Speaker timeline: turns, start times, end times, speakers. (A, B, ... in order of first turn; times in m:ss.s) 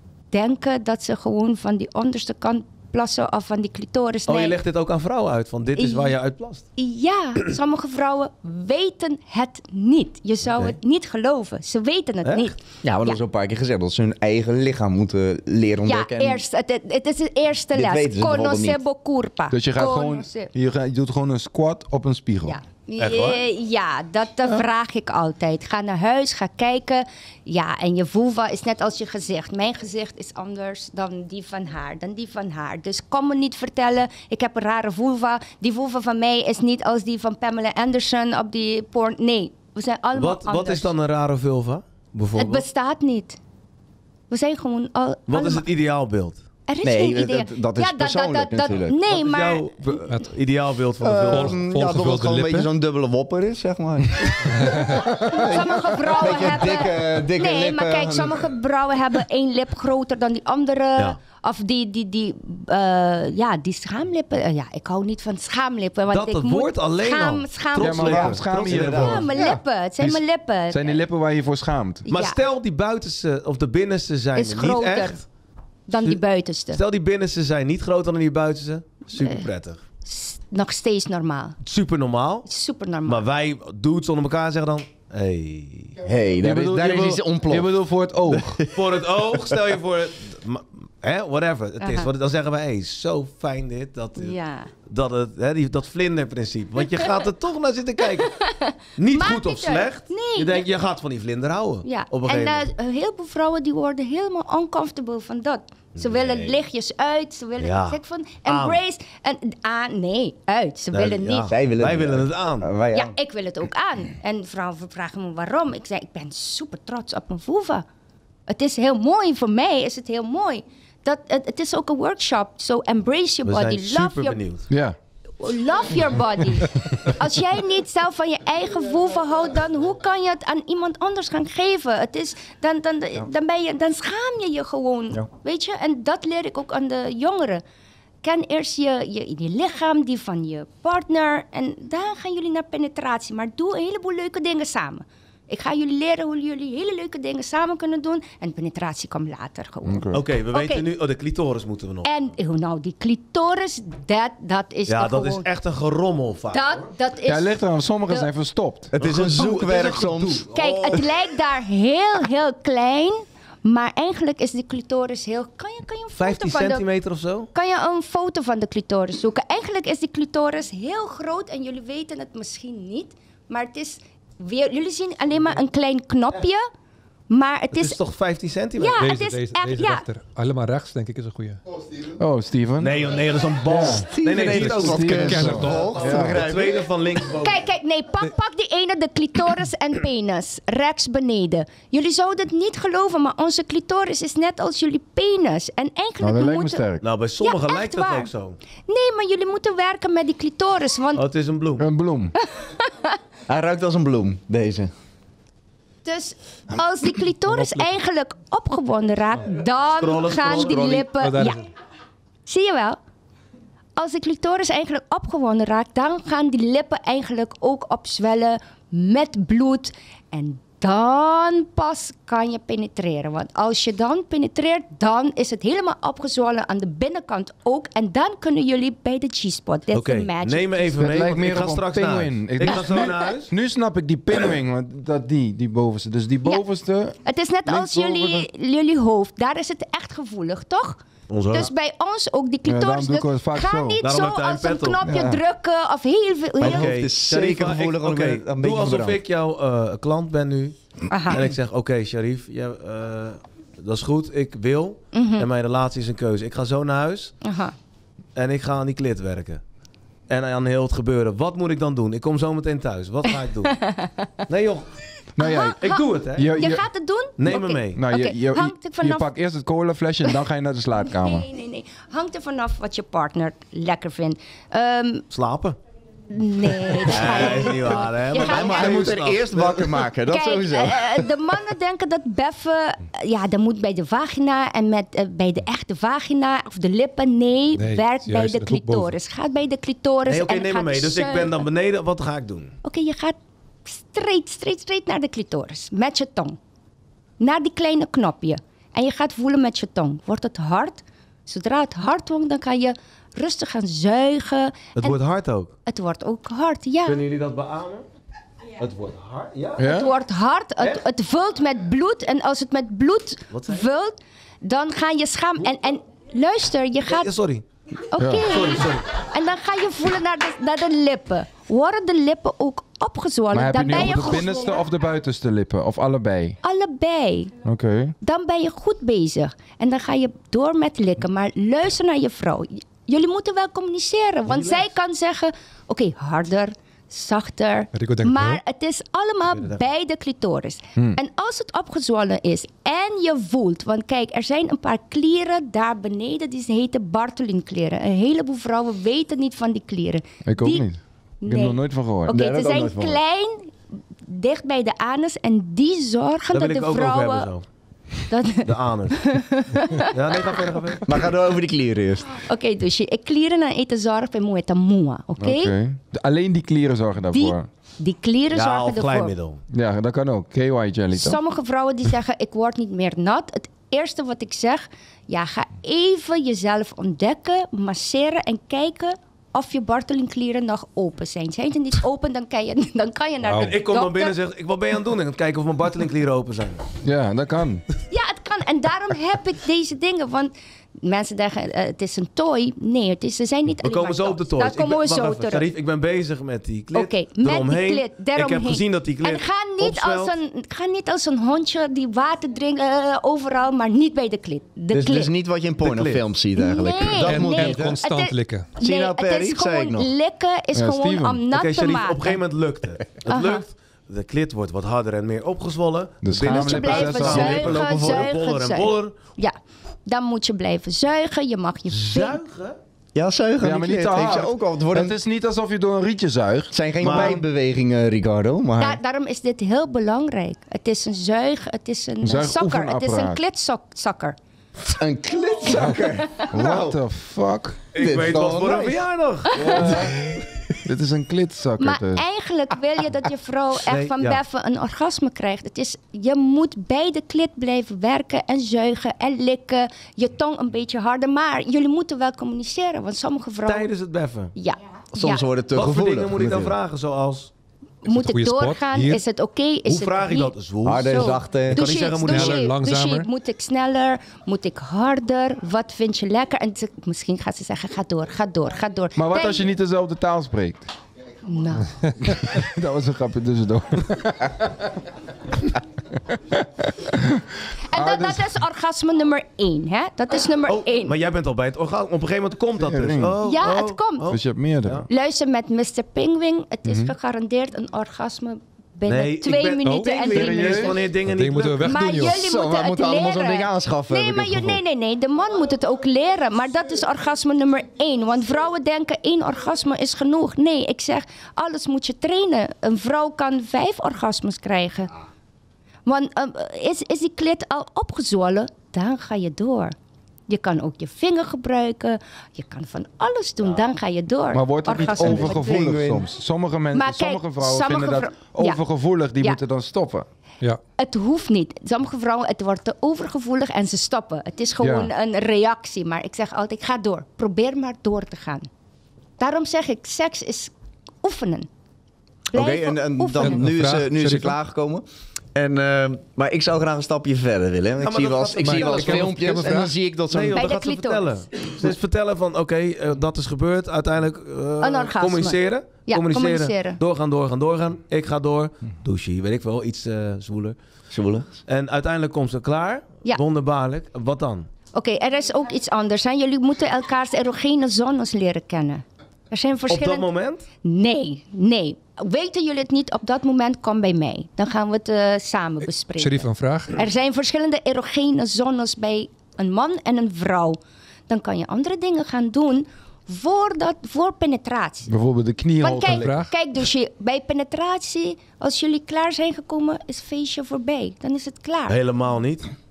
0:00.3-0:04.6 A
0:04.3-0:06.6 B
0:05.8-0:06.2 A
0:06.8-0:13.2 A
0:12.2-0:12.5 B
0:12.8-0:16.4 C
0:15.9-0:20.5 A
0:17.7-0:18.8 C
0:19.5-0:22.6 D
0:22.5-0:40.9 A
0:23.0-0:23.4 B
0:40.2-0:42.6 B
0:42.4-0:43.4 A
0:44.3-0:45.7 A
0:45.3-0:46.4 B
0:46.7-0:49.7 A
0:46.8-0:49.0 C
0:49.1-0:51.6 B
0:51.0-0:58.4 C
0:51.3-0:52.7 E
0:55.0-0:55.4 D
0:55.3-1:11.0 A
1:06.1-1:09.3 B
1:07.8-1:12.1 D
1:12.1-1:12.4 A
1:12.1-1:15.2 B
1:14.4-1:15.2 A
1:15.9-1:16.8 A
1:16.0-1:16.2 B
1:16.7-1:19.8 B
1:20.0-1:21.6 A
1:21.6-1:22.5 B
1:22.5-1:23.2 A
1:23.1-1:26.0 B
1:26.0-1:27.7 C
1:26.4-1:28.6 D
1:28.3-1:28.7 C
1:28.7-1:38.4 B
1:31.8-1:32.1 A
1:34.2-1:34.7 A
1:38.2-1:40.7 A
1:39.0-1:42.7 B
1:41.8-1:51.5 A
1:46.0-1:46.6 B
1:47.6-1:48.8 B
1:50.9-1:52.7 B
1:51.5-1:53.1 C
1:52.9-1:57.8 A
1:58.5-2:04.4 A
2:03.4-2:04.7 B
2:04.7-2:05.0 D
2:05.4-2:17.6 A
2:18.2-2:30.8 A
2:29.8-2:30.2 D
2:30.1-2:32.1 B
2:32.0-2:35.5 A
2:34.9-2:36.8 B
2:36.5-2:38.3 A
2:37.3-2:38.9 D
2:38.9-2:41.0 C
2:39.0-2:40.5 B
2:40.5-2:46.8 A
2:46.2-2:47.5 B
2:47.5-2:56.6 A
2:57.3-2:58.0 A
2:57.7-2:59.0 B
2:58.8-3:00.0 A
2:59.0-3:01.6 E
3:02.2-3:03.0 D
3:02.8-3:07.6 B
3:03.7-3:06.4 D
3:03.9-3:06.8 C
3:05.1-3:06.0 E
3:07.4-3:16.9 A
3:16.2-3:17.0 D
3:17.0-3:18.6 B
3:17.4-3:18.3 A
3:18.9-3:21.2 A
3:21.2-3:21.9 B
3:21.8-3:22.3 D
3:22.4-3:23.2 A
3:23.5-3:24.9 C
3:26.0-3:31.7 A
3:27.5-3:27.9 E
3:30.0-3:31.1 B
3:31.2-3:31.6 E
3:32.5-3:33.0 A
3:34.0-3:51.1 A
3:49.9-3:53.5 B
3:51.0-3:58.5 D
3:57.2-4:06.9 A
4:01.3-4:01.7 B
4:02.7-4:04.0 D
4:04.0-4:05.1 B
4:05.0-4:05.4 C
4:06.6-4:09.2 C
4:06.6-4:17.3 B
4:11.1-4:11.5 A
4:15.1-4:15.5 A
4:17.4-4:17.7 A
4:18.4-4:19.6 B
4:20.3-4:23.8 B
4:23.7-4:24.3 A
4:24.5-4:24.9 B
4:25.4-4:25.8 D
4:25.4-4:29.3 A
4:25.8-4:26.7 B
4:26.3-4:26.8 D
4:27.4-4:28.0 B
4:27.5-4:31.5 D
4:31.1-4:35.2 A
4:35.3-4:35.8 B
4:36.3-4:39.2 A
4:37.1-4:39.9 B
4:38.3-4:41.2 C
4:40.3-4:51.6 A
4:47.8-4:49.2 E
4:50.3-4:52.8 B
4:52.8-4:56.6 A
4:57.4-5:05.2 A
5:05.0-5:05.7 B
5:05.9-5:07.2 A
5:07.0-5:08.0 B
5:08.8-5:09.9 B
5:09.8-5:10.1 D
5:09.8-5:17.3 A
5:13.5-5:13.8 B
5:17.1-5:17.6 B
5:18.1-5:24.8 A
5:18.2-5:18.5 D
5:18.4-5:19.1 B
5:23.5-5:26.6 D
5:26.6-5:27.5 A
5:27.6-5:28.1 D
5:28.2-5:50.8 A
5:34.5-5:34.8 B
5:37.9-5:38.6 E
5:50.5-5:52.4 D
5:51.4-5:53.7 A
5:52.3-5:53.2 C
5:54.3-5:57.5 A
5:56.5-5:57.6 B
5:58.3-6:00.6 A
5:58.6-5:59.2 B
6:00.0-6:01.2 B
6:01.1-6:02.4 C
6:02.3-6:05.7 A
6:05.4-6:07.7 D
6:07.3-6:09.3 A
6:08.5-6:09.6 B
6:09.7-6:11.4 D
6:11.1-6:24.4 A
6:23.4-6:23.8 E
6:23.6-6:26.8 B
6:27.0-6:27.8 D
6:28.1-6:35.7 A
6:33.8-6:40.3 B
6:36.9-6:45.3 A
6:44.9-6:48.0 C
6:45.8-6:46.2 B
6:46.6-6:52.4 A
6:47.2-6:48.7 E
6:48.8-6:50.1 C
6:50.7-6:51.4 D
6:51.5-6:59.2 B
6:53.2-6:53.6 A
6:56.2-6:57.8 D
6:56.4-7:02.4 A
6:57.3-6:57.8 C
7:01.9-7:02.8 B
7:03.2-7:05.2 C
7:03.6-7:07.4 D
7:06.7-7:09.0 C
7:07.0-7:07.4 B
7:08.8-7:14.4 A
7:12.2-7:13.4 D
7:14.9-7:17.0 C
7:16.5-7:17.8 D
7:17.9-7:19.9 B
7:18.0-7:19.0 C
7:19.5-7:20.0 A
7:19.6-7:20.1 C
7:19.6-7:20.2 D
7:20.8-7:22.2 D
7:21.8-7:33.9 A
7:23.8-7:24.4 B
7:33.6-7:34.5 B
7:34.6-7:35.4 A
7:35.1-7:36.8 C
7:35.7-7:37.5 B
7:38.0-7:49.7 A
7:38.0-7:39.2 E
7:39.9-7:42.7 B
7:40.8-7:41.8 C
7:42.2-7:43.3 E
7:49.2-7:50.9 D
7:51.5-7:51.9 A
7:52.2-7:55.1 D
7:55.6-7:58.6 D
7:57.9-8:01.2 A
8:00.7-8:05.1 B
8:02.8-8:03.4 D
8:03.4-8:04.3 A
8:04.3-8:05.1 D
8:05.1-8:11.0 A
8:06.9-8:07.1 D
8:09.1-8:11.9 B
8:09.8-8:10.4 E
8:10.3-8:11.0 D
8:11.2-8:12.4 E
8:11.8-8:25.1 A
8:12.3-8:14.8 C
8:26.1-8:29.9 A
8:30.5-8:36.1 A
8:34.5-8:40.3 D
8:35.1-8:36.2 C
8:36.9-8:38.8 A
8:41.0-8:48.7 A
8:44.8-8:45.1 D
8:49.4-8:50.7 A
8:51.2-8:51.7 A
8:52.5-8:53.7 A
8:52.5-8:55.0 C
8:53.3-8:54.6 E
8:55.6-9:00.6 C
8:58.0-8:59.4 B
8:58.6-8:59.9 E
9:00.3-9:10.8 B
9:00.5-9:01.4 A
9:04.8-9:07.0 A
9:11.1-9:11.6 C
9:11.7-9:14.7 B
9:14.9-9:20.3 A
9:19.9-9:20.6 B
9:20.8-9:30.8 A
9:26.2-9:27.0 E
9:31.3-9:35.1 A
9:35.1-9:36.5 D
9:35.8-9:42.0 A
9:36.1-9:36.5 E
9:41.9-9:42.7 B